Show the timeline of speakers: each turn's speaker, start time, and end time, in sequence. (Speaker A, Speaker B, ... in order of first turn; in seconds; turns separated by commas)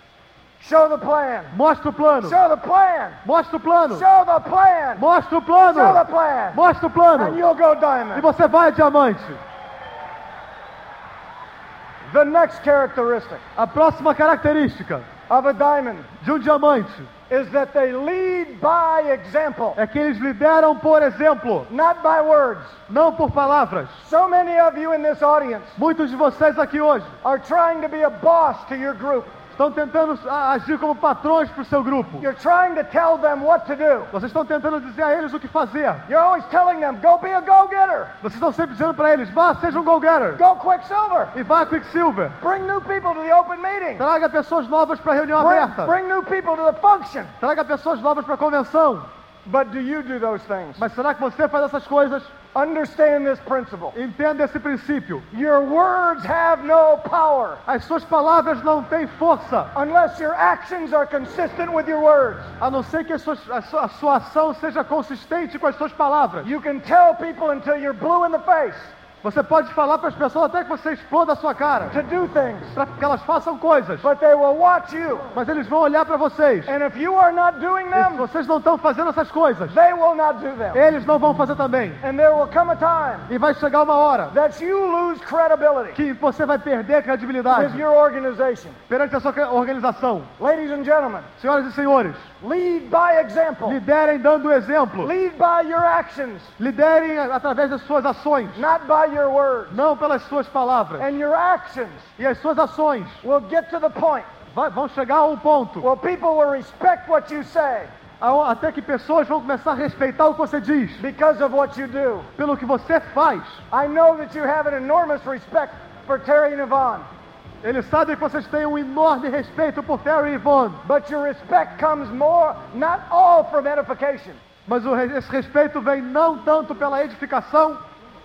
Speaker A: 0.6-1.6, Speaker B: 1.5-2.4, Speaker A: 2.2-3.2, Speaker B: 3.2-4.0, Speaker A: 3.9-5.0, Speaker B: 5.0-7.4, Speaker A: 5.7-6.6, Speaker A: 7.2-8.3, Speaker B: 8.1-9.4, Speaker A: 12.1-13.4, Speaker B: 13.6-15.1, Speaker A: 15.3-16.1, Speaker B: 16.2-17.1, Speaker A: 17.3-19.8, Speaker B: 19.8-21.7, Speaker A: 21.7-22.7, Speaker B: 22.9-23.9, Speaker A: 24.0-25.7, Speaker B: 25.8-27.1, Speaker A: 27.2-29.3, Speaker B: 29.5-32.2, Speaker A: 32.2-34.1, Speaker B: 34.1-36.0, Speaker A: 36.1-38.1, Speaker B: 38.2-40.4, Speaker A: 40.3-41.3, Speaker B: 41.3-42.4, Speaker A: 42.4-44.0, Speaker B: 44.0-45.9, Speaker A: 45.4-47.3, Speaker B: 47.4-49.1, Speaker A: 49.5-50.8, Speaker B: 50.8-52.3, Speaker A: 52.5-53.9, Speaker B: 53.9-55.2, Speaker A: 55.3-57.6, Speaker B: 57.7-59.7, Speaker A: 59.7-62.5, Speaker B: 62.6-66.5, Speaker A: 66.4-68.9, Speaker B: 69.2-71.9, Speaker A: 71.9-72.7, Speaker B: 72.7-74.0, Speaker A: 74.0-75.2, Speaker B: 75.3-76.7, Speaker A: 76.7-78.2, Speaker B: 77.9-79.7, Speaker A: 79.7-80.8, Speaker B: 80.7-82.0, Speaker A: 82.0-83.3, Speaker B: 83.3-84.3, Speaker A: 84.3-86.0, Speaker B: 85.9-87.8, Speaker A: 87.5-88.8, Speaker B: 88.9-90.3, Speaker A: 90.4-91.3, Speaker B: 91.4-92.2, Speaker A: 92.4-93.8, Speaker B: 93.6-95.1, Speaker A: 95.0-96.5, Speaker B: 96.6-98.6, Speaker A: 98.5-99.8, Speaker B: 99.7-101.1, Speaker A: 101.0-102.1, Speaker B: 102.2-103.2, Speaker A: 103.2-104.3, Speaker B: 104.5-105.9, Speaker A: 105.8-107.9, Speaker B: 108.2-111.0, Speaker A: 111.0-112.3, Speaker B: 112.4-113.6, Speaker A: 113.7-117.0, Speaker B: 117.6-120.8, Speaker A: 120.8-124.4, Speaker B: 124.7-127.8